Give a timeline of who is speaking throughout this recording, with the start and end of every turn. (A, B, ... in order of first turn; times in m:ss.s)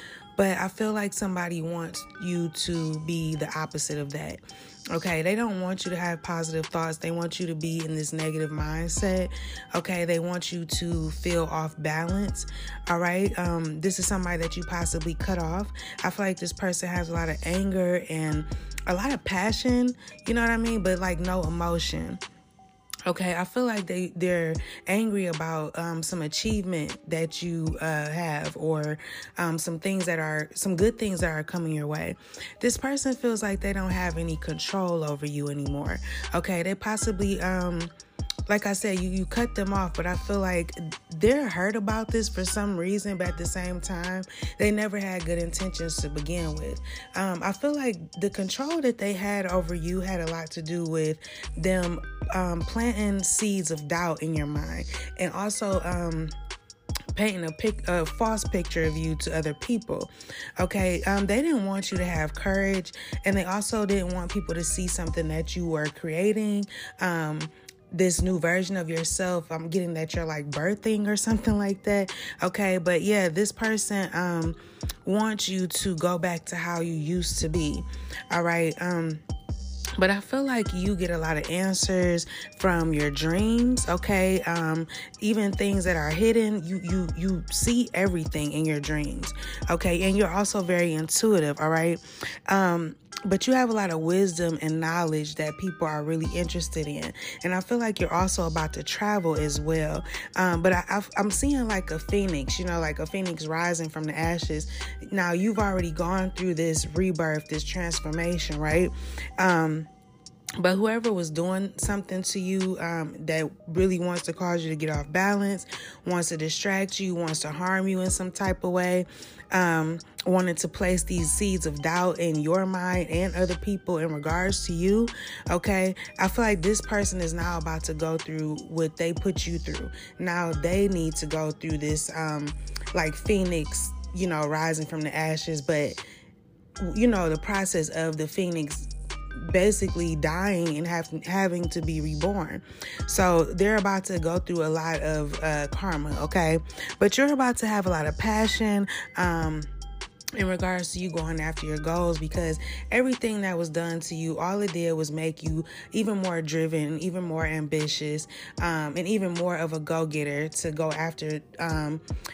0:00.4-0:04.4 A
0:04.9-0:22.2 A
0:23.0-0:37.9 A
0:38.5-0:56.3 A
0:57.1-1:19.2 A
1:20.0-1:49.9 A
1:50.6-2:16.0 A
2:16.8-2:29.7 A
2:30.4-2:42.0 A